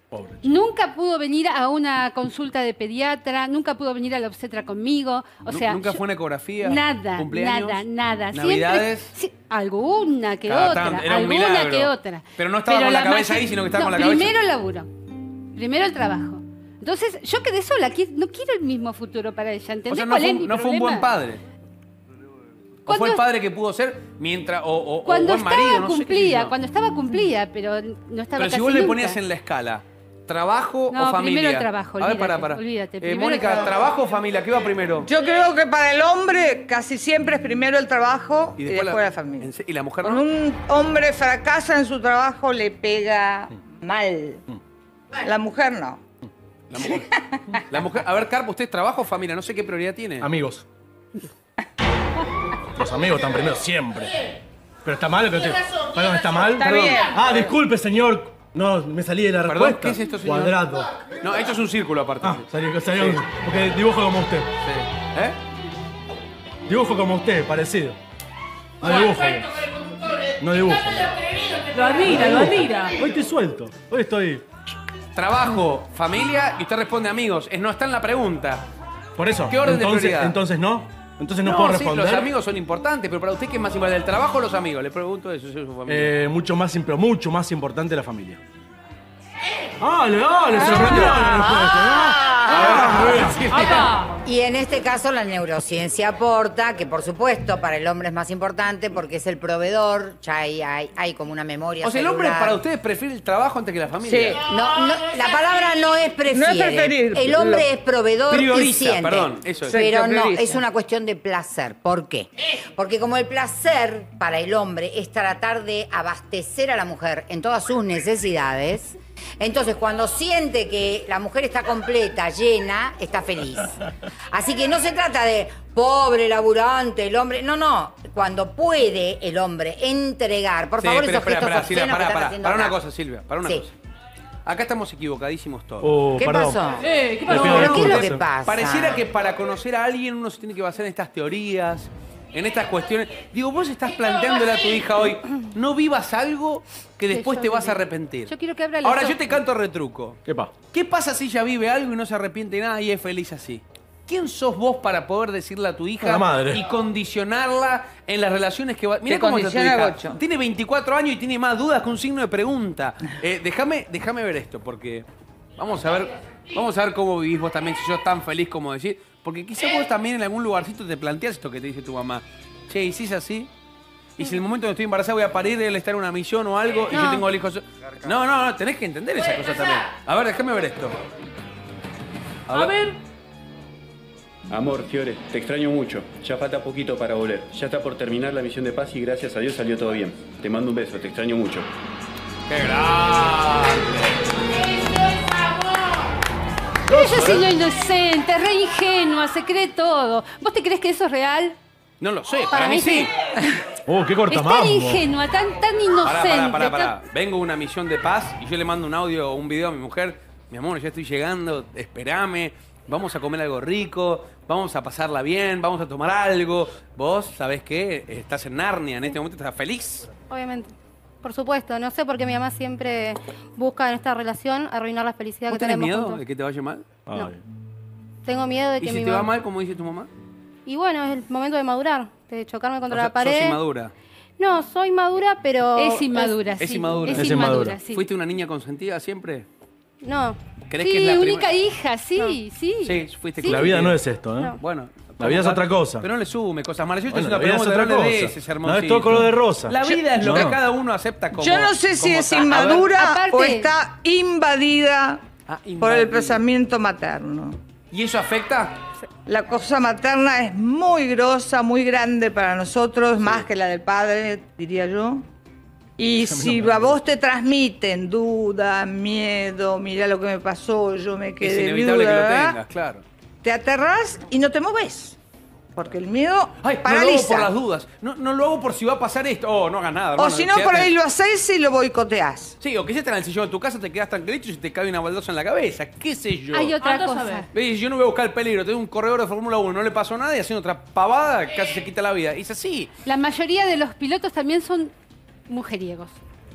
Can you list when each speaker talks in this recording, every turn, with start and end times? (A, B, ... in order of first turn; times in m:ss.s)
0:00.1-0:00.4 A
0:00.4-0:06.0 B
0:05.5-0:09.1 C
0:06.6-0:14.9 B
0:10.4-0:14.3 C
0:15.5-0:21.1 B
0:19.9-0:21.4 C
0:22.8-0:26.5 C
0:22.9-0:23.2 B
0:25.0-0:29.2 B
0:28.4-0:35.1 C
0:30.9-0:33.7 B
0:35.0-0:39.5 D
0:38.6-0:40.2 C
0:40.0-0:44.4 D
0:45.2-0:46.0 D
0:46.7-0:47.1 C
0:46.8-0:47.6 D
0:47.6-0:50.3 C
0:50.2-0:50.6 A
0:52.8-0:54.2 A
0:54.8-1:01.0 A
0:56.5-0:57.5 D
0:59.4-1:00.6 C
1:01.2-1:03.2 C
1:02.2-1:04.5 A
1:04.6-1:05.4 C
1:06.7-1:08.0 A
1:08.8-1:09.6 A
1:10.4-1:11.1 A
1:11.7-1:12.9 E
1:12.0-1:14.4 A
1:15.1-1:18.6 C
1:19.2-1:22.3 A
1:19.5-1:20.4 C
1:21.4-1:26.1 C
1:25.9-1:28.4 A
1:29.8-1:33.5 A
1:30.5-1:31.6 C
1:31.2-1:33.3 F
1:32.4-1:33.9 C
1:33.5-1:34.1 E
1:34.2-1:42.6 F
1:41.8-1:44.4 C
1:44.0-1:44.4 D
1:44.5-2:12.8 F
1:46.3-1:47.7 D
1:48.3-1:49.8 C
1:49.6-1:50.6 D
2:10.8-2:13.7 C
2:14.4-2:15.9 C
2:15.8-2:16.6 A
2:16.2-2:19.0 F
2:16.8-2:18.0 E
2:17.3-2:30.2 C
2:17.3-2:18.2 A
2:27.1-2:29.4 B
2:30.2-2:30.5 A
2:30.7-2:53.5 C
2:36.0-2:36.6 A
2:39.1-2:40.2 D
2:54.2-3:01.0 C
2:56.9-2:57.2 G
3:02.5-3:02.7 C
3:04.5-3:11.7 H
3:12.5-3:14.2 C
3:16.9-3:21.6 B
3:16.9-3:17.5 A
3:22.0-3:23.1 C
3:22.5-3:23.0 G
3:22.6-3:23.1 B
3:23.8-3:25.0 A
3:24.3-3:26.9 B
3:26.0-3:40.1 C
3:40.3-3:46.2 G
3:45.5-3:46.8 C
3:47.1-3:47.4 A
3:48.2-3:49.3 G
3:48.8-3:50.1 C
3:50.6-3:53.6 G
3:52.9-3:53.9 C
3:54.4-3:56.4 G
3:55.7-3:58.0 B
3:56.6-3:59.5 C
3:57.1-3:57.8 A
4:00.0-4:00.4 G
4:00.7-4:01.5 C
4:00.8-4:03.7 B
4:02.8-4:04.0 C
4:03.4-4:04.6 A
4:04.6-4:12.9 C
4:05.2-4:06.0 A
4:07.1-4:10.6 A
4:09.8-4:10.2 D
4:11.3-4:15.2 D
4:12.9-4:13.7 B
4:15.4-4:16.4 C
4:15.8-4:17.6 D
4:17.9-4:18.7 C
4:19.2-4:25.2 D
4:23.2-4:23.4 C
4:26.0-4:32.6 D
4:26.3-4:26.9 A
4:31.4-4:33.0 C
4:33.4-4:35.2 D
4:35.7-4:37.5 D
4:36.6-4:40.9 C
4:40.2-4:42.6 D
4:42.6-4:46.7 C
4:46.5-4:47.5 B
4:46.8-4:47.4 E
4:47.5-4:52.9 C
4:53.0-4:54.9 B
4:55.5-4:56.2 B